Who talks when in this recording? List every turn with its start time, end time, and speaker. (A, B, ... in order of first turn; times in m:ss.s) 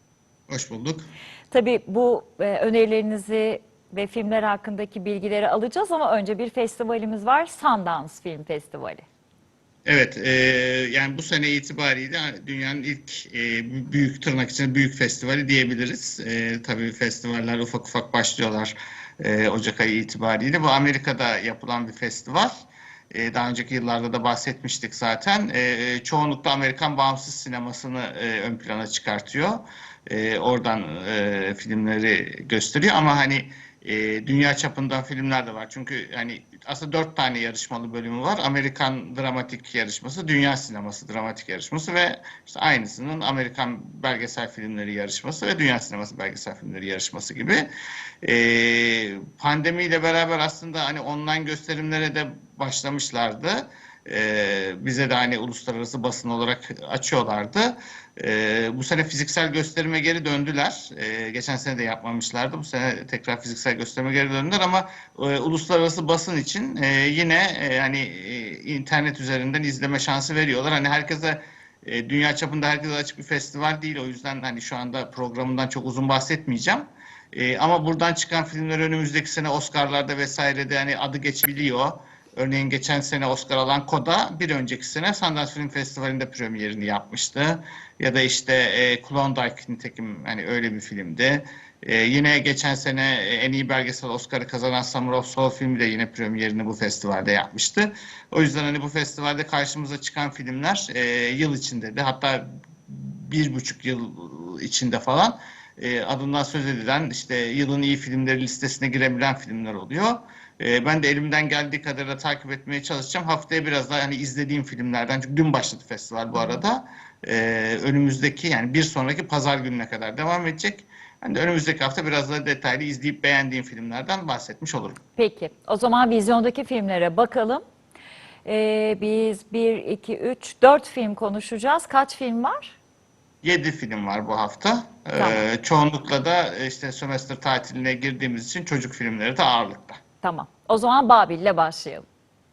0:00.5-0:01.1 A
0:01.5-0:09.0 B
0:09.8-0:22.5 A
0:23.1-0:47.7 A
0:48.2-2:05.0 A
2:05.2-2:07.6 B
2:08.4-2:12.8 B
2:13.4-2:20.0 A
2:15.2-2:15.4 B
2:20.2-2:22.0 B